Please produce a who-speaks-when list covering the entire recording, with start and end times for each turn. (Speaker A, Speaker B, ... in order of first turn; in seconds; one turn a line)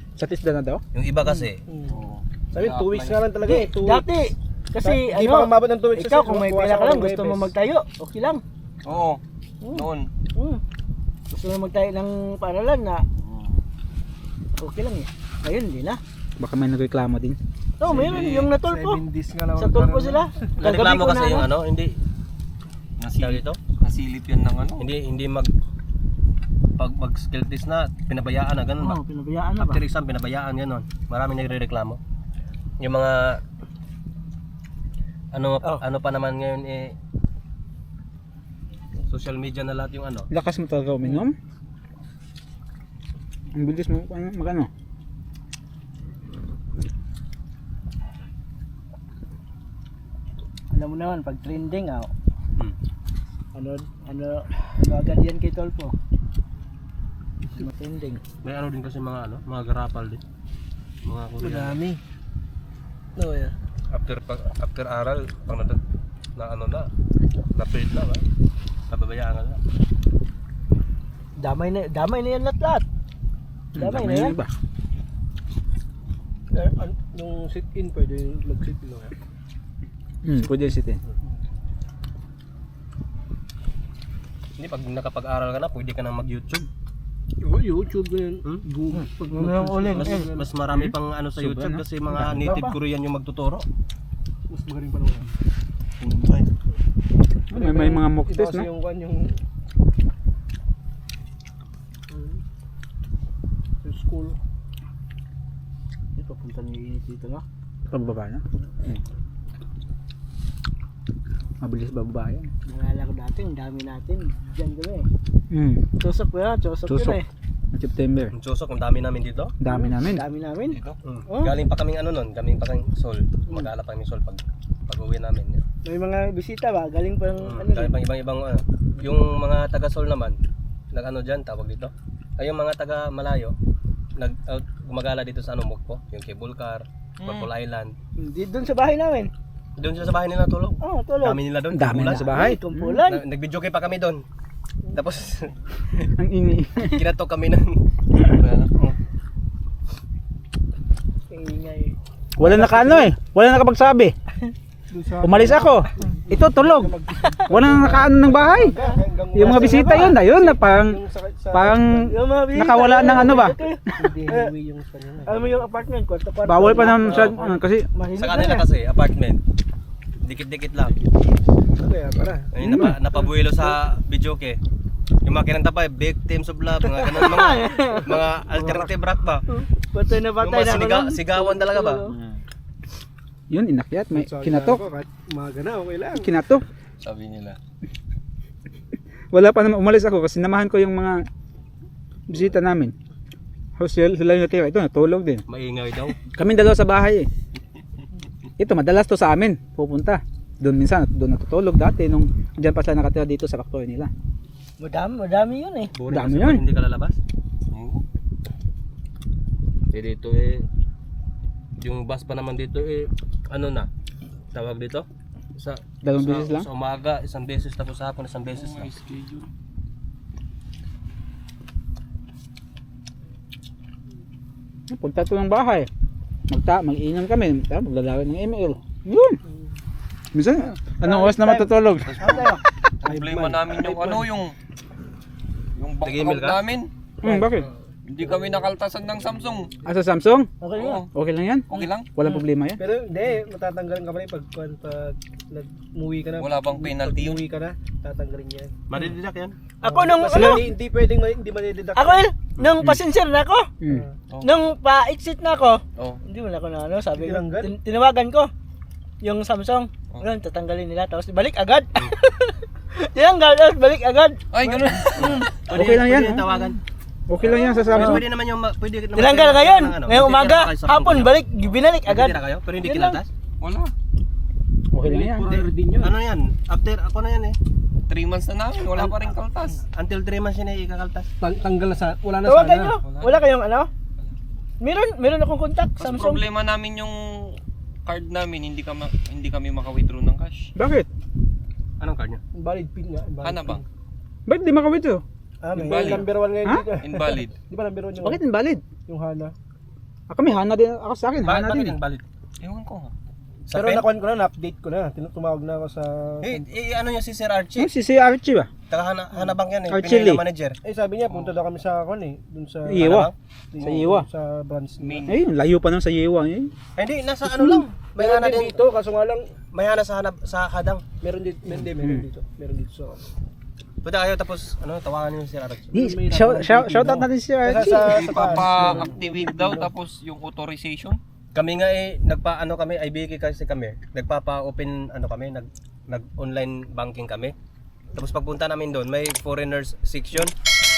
Speaker A: 0.2-0.8
Speaker B: 0.9-1.6
Speaker C: 1.7-2.0
Speaker D: 1.9-3.3
Speaker C: 2.5-4.1
Speaker E: 3.4-8.4
Speaker C: 4.8-7.5
Speaker D: 8.8-10.1
Speaker E: 9.6-10.6
Speaker E: 11.3-13.1
Speaker D: 13.2-13.6
Speaker E: 14.6-16.0
Speaker A: 16.4-17.4
Speaker E: 17.8-19.0
Speaker D: 17.8-18.5
Speaker C: 17.9-20.5
Speaker E: 19.6-21.5
Speaker B: 20.6-21.9
Speaker D: 23.0-24.9
Speaker B: 23.2-23.6
Speaker B: 24.8-25.5
Speaker B: 26.8-29.0
Speaker E: 28.8-29.8
Speaker B: 29.6-32.0
Speaker B: 32.8-33.4
Speaker B: 35.3-36.9
Speaker B: 39.1-40.3
Speaker A: 40.3-41.3
Speaker A: 43.5-44.7
Speaker E: 50.7-52.1
Speaker E: 53.5-55.9
Speaker E: 57.5-58.2
Speaker B: 58.4-60.2
Speaker B: 61.0-61.8
Speaker C: 61.4-62.0
Speaker C: 63.1-63.5
Speaker B: 63.9-65.8
Speaker B: 66.4-66.9
Speaker B: 67.5-68.2
Speaker B: 68.9-69.6
Speaker E: 71.4-72.8
Speaker E: 73.8-74.4
Speaker A: 73.8-74.5
Speaker C: 76.5-79.1
Speaker A: 80.2-81.0
Speaker B: 84.6-86.7
Speaker C: 87.4-90.5
Speaker E: 88.9-90.3
Speaker B: 89.9-93.6
Speaker A: 90.7-92.6
Speaker E: 92.3-92.8
Speaker C: 94.5-95.3
Speaker D: 96.0-96.3
Speaker A: 97.5-98.7
Speaker C: 97.5-99.4
Speaker C: 102.1-102.4
Speaker C: 103.8-104.4
Speaker E: 106.2-107.4
Speaker A: 107.9-109.0
Speaker A: 111.6-112.5
Speaker E: 112.7-115.1
Speaker A: 115.5-115.9
Speaker E: 116.0-117.2
Speaker A: 116.9-117.2
Speaker A: 117.7-118.3
Speaker B: 118.3-119.5
Speaker A: 119.6-120.2
Speaker E: 119.6-121.7
Speaker D: 120.7-121.0
Speaker B: 121.0-125.6
Speaker E: 125.8-128.0
Speaker B: 127.4-130.4
Speaker B: 130.9-133.6
Speaker B: 134.2-137.9
Speaker D: 137.2-137.5
Speaker E: 138.2-139.3
Speaker B: 139.8-144.2
Speaker E: 140.8-141.4
Speaker A: 141.7-143.1
Speaker E: 142.1-143.2
Speaker B: 144.9-146.1
Speaker A: 146.2-147.0
Speaker B: 146.8-149.0
Speaker D: 148.2-148.7
Speaker E: 151.3-151.9
Speaker A: 152.4-154.1
Speaker C: 152.4-153.1
Speaker C: 154.9-162.2
Speaker A: 155.2-156.9
Speaker E: 157.2-157.8
Speaker A: 157.5-158.8
Speaker E: 158.7-160.2
Speaker A: 159.3-161.0
Speaker A: 161.5-163.6
Speaker E: 162.1-164.5
Speaker C: 162.9-165.8
Speaker E: 165.2-168.7
Speaker A: 166.4-167.9
Speaker C: 166.7-167.4
Speaker B: 167.1-167.3
Speaker B: 168.2-169.4
Speaker B: 170.2-170.9
Speaker C: 171.7-173.8
Speaker B: 172.5-174.6
Speaker A: 172.6-172.9
Speaker B: 175.2-179.4
Speaker E: 177.1-178.2
Speaker E: 179.5-182.2
Speaker B: 180.4-182.0
Speaker D: 182.1-182.4
Speaker A: 183.5-184.8
Speaker C: 184.1-186.3
Speaker A: 186.1-186.6
Speaker D: 187.0-187.6
Speaker A: 189.3-191.2
Speaker A: 192.3-192.9
Speaker A: 193.8-195.4
Speaker B: 195.5-196.2
Speaker A: 196.3-197.3
Speaker A: 198.6-204.1
Speaker E: 204.8-205.9
Speaker B: 205.9-207.2
Speaker A: 206.1-206.6
Speaker D: 207.7-208.0
Speaker B: 209.9-210.6
Speaker B: 211.8-213.9
Speaker B: 214.5-218.9
Speaker A: 216.0-216.7
Speaker D: 218.5-219.5
Speaker A: 224.9-225.9
Speaker A: 226.5-229.4
Speaker C: 229.4-229.7
Speaker A: 230.3-232.6
Speaker E: 230.9-232.6
Speaker D: 232.1-234.6
Speaker C: 233.1-234.3
Speaker D: 235.8-236.9
Speaker B: 236.0-236.6
Speaker A: 237.2-237.7
Speaker C: 237.2-238.7
Speaker D: 238.1-239.7
Speaker C: 239.2-239.9
Speaker A: 239.9-240.5
Speaker E: 240.6-241.1
Speaker D: 240.7-241.1
Speaker A: 241.1-242.8
Speaker D: 241.7-242.1
Speaker C: 242.8-248.7
Speaker D: 246.4-247.4
Speaker B: 248.9-249.6
Speaker E: 249.8-250.7
Speaker C: 249.8-252.3
Speaker E: 251.9-253.7
Speaker C: 253.9-254.1
Speaker E: 254.4-258.5
Speaker C: 257.1-257.7
Speaker E: 259.2-264.4
Speaker D: 264.5-265.6
Speaker B: 264.9-266.8
Speaker E: 265.1-265.5
Speaker A: 265.7-266.7
Speaker A: 267.3-268.2
Speaker B: 267.4-271.4
Speaker E: 267.9-268.2
Speaker E: 269.1-273.2
Speaker B: 272.0-273.3
Speaker D: 273.6-273.9
Speaker A: 274.9-275.6
Speaker C: 275.0-276.1
Speaker B: 275.5-277.6
Speaker D: 278.1-279.8
Speaker B: 279.9-281.3
Speaker C: 281.4-283.0
Speaker E: 282.4-283.9
Speaker D: 283.1-283.4
Speaker E: 284.8-286.4
Speaker D: 286.0-290.7
Speaker A: 290.8-291.1
Speaker B: 292.0-292.4
Speaker C: 292.5-293.8
Speaker D: 293.4-293.8
Speaker A: 294.5-295.2
Speaker C: 295.6-298.4
Speaker D: 295.7-296.3
Speaker D: 297.0-297.6
Speaker A: 298.2-298.8
Speaker C: 299.1-299.5
Speaker A: 300.3-301.9
Speaker B: 301.4-302.2
Speaker D: 302.6-303.1
Speaker B: 303.7-304.1
Speaker C: 303.7-306.6
Speaker B: 306.4-307.9
Speaker A: 307.8-308.7
Speaker B: 308.9-310.8
Speaker A: 309.9-310.4
Speaker C: 310.8-313.1
Speaker A: 312.9-314.3
Speaker B: 313.0-313.3
Speaker C: 313.7-315.3
Speaker D: 315.0-315.5
Speaker A: 315.3-316.7
Speaker B: 317.0-318.8
Speaker C: 317.6-319.6
Speaker B: 319.7-321.0
Speaker C: 321.2-323.2
Speaker A: 322.0-322.3
Speaker B: 324.0-325.9
Speaker A: 325.9-328.4
Speaker C: 325.9-329.9
Speaker D: 327.9-331.2
Speaker B: 331.6-337.5
Speaker B: 338.1-340.5